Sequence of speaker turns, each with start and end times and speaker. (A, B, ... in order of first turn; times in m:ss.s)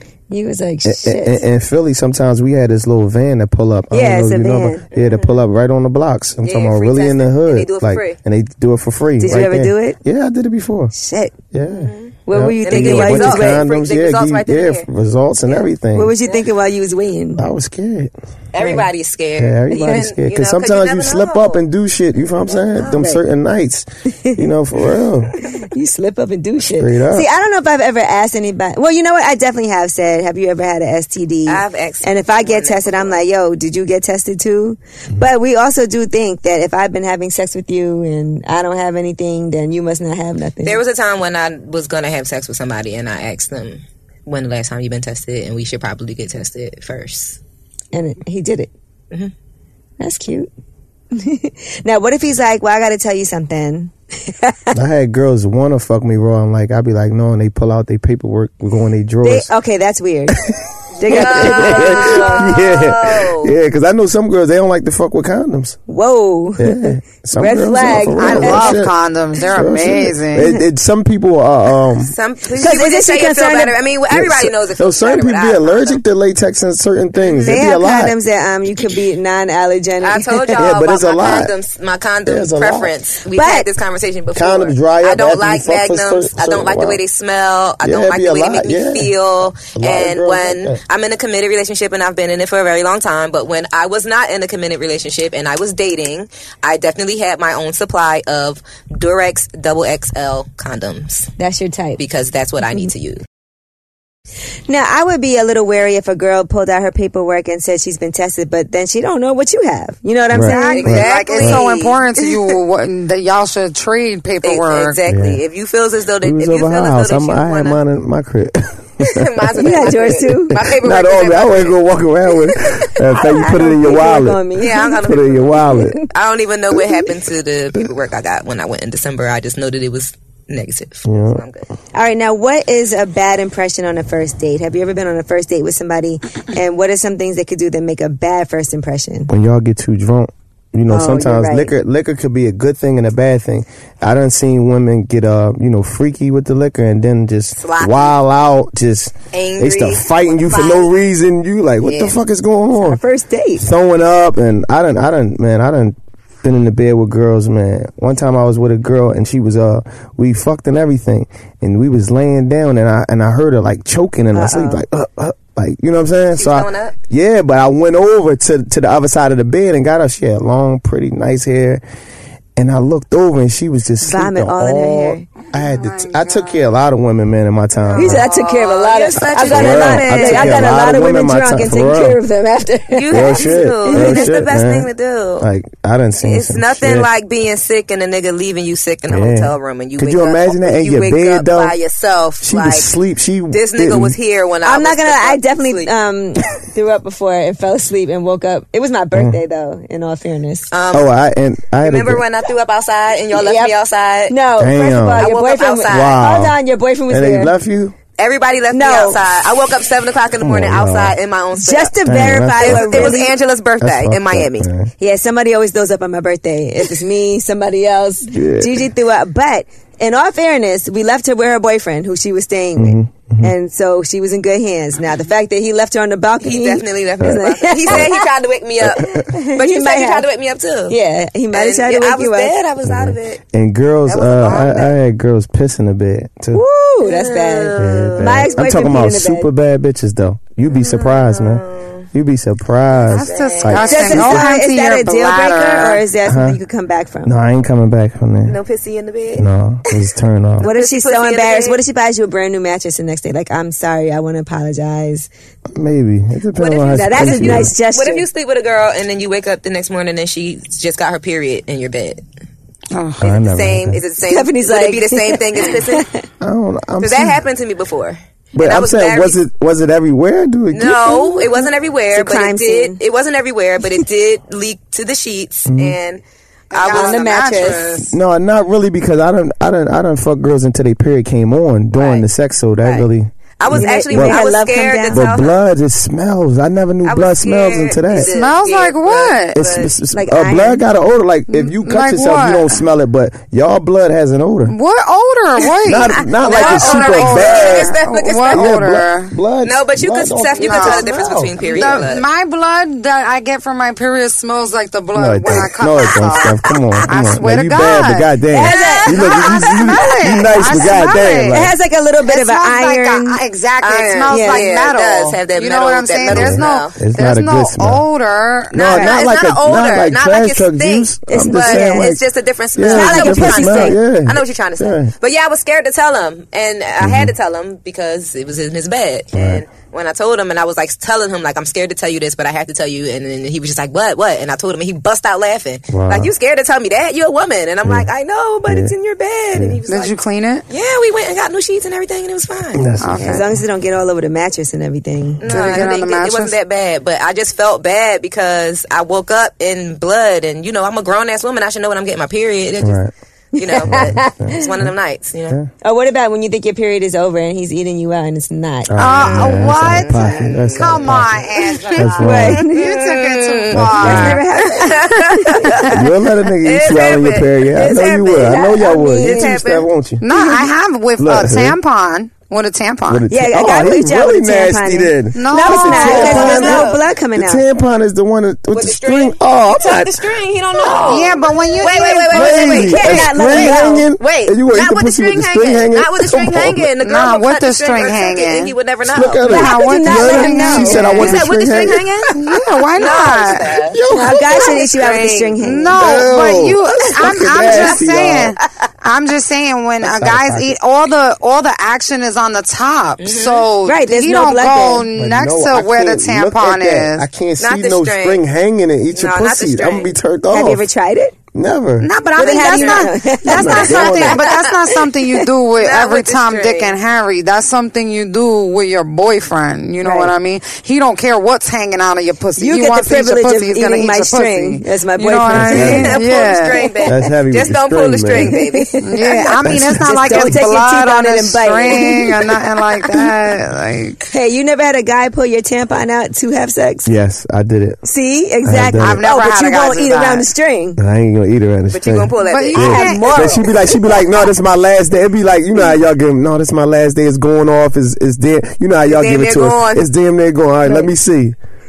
0:00.3-0:01.4 A
0:00.8-0:10.9 B
0:03.9-0:04.8 A
0:04.9-0:05.4 C
0:06.4-0:08.2 C
0:09.2-0:10.0 A
0:10.9-0:11.4 A
0:11.5-0:16.1 B
0:11.7-0:12.1 C
0:12.3-0:13.6 A
0:12.6-0:14.9 C
0:15.9-0:17.4 A
0:17.4-0:18.1 B
0:18.5-0:21.6 C
0:19.4-0:25.3 B
0:19.7-0:20.1 A
0:22.9-0:23.2 A
0:25.4-0:40.8 A
0:26.7-0:27.3 B
0:31.5-0:33.2 C
0:40.6-0:47.4 C
0:47.9-0:48.7 A
0:50.0-0:50.5 A
0:51.1-0:54.8 A
0:54.7-0:59.5 B
0:59.2-1:00.4 A
1:00.4-1:05.8 B
1:01.0-1:02.6 A
1:01.1-1:03.5 C
1:05.9-1:08.8 A
1:06.6-1:12.1 B
1:08.2-1:10.6 D
1:12.1-1:16.0 C
1:12.5-1:13.8 A
1:14.1-1:18.2 B
1:17.2-1:17.6 C
1:17.4-1:20.6 A
1:20.0-1:41.3 C
1:20.6-1:21.5 B
1:22.3-1:22.9 B
1:23.4-1:23.7 A
1:24.3-1:27.0 B
1:27.8-1:29.1 B
1:29.6-1:30.8 B
1:41.4-1:42.0 A
1:42.0-1:43.2 C
1:44.7-1:50.9 A
1:50.3-1:51.7 B
1:50.4-1:52.1 C
1:50.7-1:55.0 D
1:54.4-1:57.8 C
1:55.1-1:55.4 B
1:56.2-1:59.4 B
1:59.0-2:01.8 C
1:59.6-2:00.6 A
2:00.5-2:06.0 B
2:02.5-2:02.7 C
2:03.1-2:05.0 A
2:04.6-2:11.7 C
2:05.7-2:06.1 A
2:11.0-2:11.4 B
2:11.9-2:19.3 A
2:19.3-2:33.0 B
2:20.9-2:21.7 A
2:27.6-2:28.2 C
2:29.3-2:30.9 C
2:31.8-2:32.2 C
2:32.8-2:33.7 A
2:33.6-2:51.8 B
2:44.3-2:44.8 A
2:46.4-2:46.9 C
2:52.6-2:58.2 B
2:54.0-2:55.3 A
2:55.5-2:56.7 D
2:58.0-3:04.3 A
2:58.0-3:00.7 C
2:59.3-3:02.2 B
3:02.9-3:05.5 C
3:03.1-3:07.1 B
3:06.2-3:12.9 C
3:09.1-3:11.8 B
3:12.4-3:14.2 B
3:13.5-3:15.9 C
3:14.6-3:20.7 A
3:19.1-3:19.4 B
3:20.7-3:21.1 C
3:20.9-3:22.2 B
3:21.8-3:24.4 C
3:23.4-3:23.7 A
3:24.3-3:27.5 A
3:24.6-3:25.3 B
3:25.2-3:26.2 C
3:25.8-3:26.6 B
3:27.1-3:28.0 B
3:28.2-3:32.0 C
3:28.7-3:29.2 A
3:30.4-3:31.2 B
3:31.6-3:33.3 A
3:32.0-3:33.2 B
3:32.6-3:34.7 C
3:33.8-3:34.9 B
3:35.0-3:48.2 A
3:38.3-3:38.8 B
3:42.8-3:43.5 B
3:46.4-3:51.0 C
3:47.2-3:48.1 B
3:48.8-3:49.3 B
3:49.0-3:50.3 A
3:50.9-3:52.6 A
3:51.5-3:53.4 C
3:52.8-3:56.6 B
3:54.1-3:55.0 C
3:56.5-3:59.5 A
3:57.0-3:58.5 C
3:57.8-4:04.5 B
4:00.7-4:02.1 C
4:03.1-4:06.0 D
4:03.2-4:04.4 C
4:03.8-4:07.3 A
4:06.3-4:06.6 B
4:07.2-4:08.6 B
4:08.5-4:10.0 C
4:09.4-4:10.7 B
4:10.6-4:11.8 C
4:10.6-4:15.3 A
4:15.7-4:17.7 B
4:16.6-4:22.2 C
4:16.8-4:18.3 A
4:22.9-4:23.3 D
4:23.2-4:24.0 B
4:23.2-4:26.1 C
4:24.2-4:26.2 A
4:26.4-4:27.4 B
4:27.0-4:29.4 C
4:28.6-4:31.2 B
4:30.7-4:38.1 C
4:31.1-4:33.0 A
4:35.7-4:36.0 B
4:36.7-4:38.1 D
4:36.9-4:37.9 A
4:38.1-4:44.4 B
4:42.0-4:42.3 C
4:42.8-4:45.6 C
4:43.7-4:45.2 A
4:45.1-4:48.3 B
4:47.0-4:49.9 C
4:48.2-4:49.6 D
4:49.6-4:54.8 B
4:50.1-4:50.8 A
4:51.5-4:52.8 D
4:54.7-4:59.4 D
4:55.8-4:58.0 B
4:56.3-4:58.8 C
4:58.5-5:01.9 B
4:59.6-5:02.3 C
5:00.6-5:06.5 D
5:05.1-5:11.7 B
5:05.5-5:07.0 C
5:07.1-5:11.7 D
5:08.5-5:09.3 A
5:08.7-5:10.0 C
5:10.6-5:11.0 C
5:11.5-5:13.4 A
5:12.3-5:18.9 D
5:13.8-5:17.0 C
5:14.3-5:14.7 A
5:16.3-5:18.0 B
5:18.7-5:22.2 B
5:18.7-5:40.2 C
5:21.3-5:22.1 A
5:22.8-5:25.1 B
5:22.9-5:24.0 A
5:27.0-5:27.3 B
5:29.3-5:29.6 B
5:35.9-5:36.3 B
5:38.7-5:38.9 B
5:39.5-5:39.8 B
5:39.9-5:40.6 D
5:40.7-5:42.9 C
5:42.7-5:43.6 B
5:43.0-5:43.5 D
5:43.2-5:45.4 A
5:45.4-5:53.0 C
5:45.5-5:46.6 D
5:52.8-5:53.1 B
5:53.6-5:54.6 A
5:53.6-5:55.6 C
5:53.9-5:54.9 B
5:55.8-5:59.0 A
5:58.9-6:01.4 B
5:59.0-6:04.4 D
5:59.2-6:05.9 C
6:02.0-6:02.7 B
6:02.2-6:02.9 A
6:03.7-6:04.4 B
6:04.0-6:05.9 A
6:05.9-6:10.2 B
6:06.6-6:09.9 C
6:07.8-6:09.6 A
6:10.2-6:13.2 D
6:10.3-6:10.7 A
6:11.2-6:11.8 B
6:13.1-6:20.3 B
6:13.3-6:17.6 A
6:15.4-6:16.9 D
6:15.8-6:17.0 C
6:18.7-6:29.5 C
6:21.0-6:23.0 D
6:22.3-6:26.9 B
6:22.8-6:24.0 A
6:27.0-6:28.7 D
6:29.1-6:32.1 B
6:29.5-6:31.2 A
6:29.5-6:31.4 D
6:30.2-6:32.3 C
6:32.3-6:33.8 D
6:33.0-6:35.6 C
6:33.9-6:34.9 B
6:34.1-6:36.0 A
6:35.6-6:47.3 D
6:35.9-6:38.6 B
6:37.6-6:37.9 C
6:40.0-6:40.8 B
6:43.2-6:43.7 C
6:43.8-6:45.1 A
6:45.2-6:50.8 B
6:47.6-6:48.4 C
6:49.1-6:50.2 C
6:50.5-6:51.4 A
6:51.5-6:52.1 B
6:52.0-7:06.9 D
6:52.4-6:54.2 A
6:52.5-6:54.9 C
6:53.4-6:54.5 B
6:55.8-6:57.0 C
7:00.0-7:00.3 A
7:02.6-7:06.2 A
7:05.5-7:06.2 B
7:05.7-7:09.3 C
7:07.0-7:08.6 B
7:08.4-7:12.5 A
7:09.0-7:14.2 D
7:09.6-7:10.6 B
7:14.3-7:17.1 A
7:17.1-7:18.0 B
7:18.0-7:21.0 A
7:18.6-7:19.2 B
7:19.0-7:20.5 D
7:21.0-7:31.6 B
7:21.9-7:23.7 C
7:22.4-7:23.7 D
7:22.8-7:23.7 A
7:29.1-7:30.1 C
7:30.8-7:31.1 A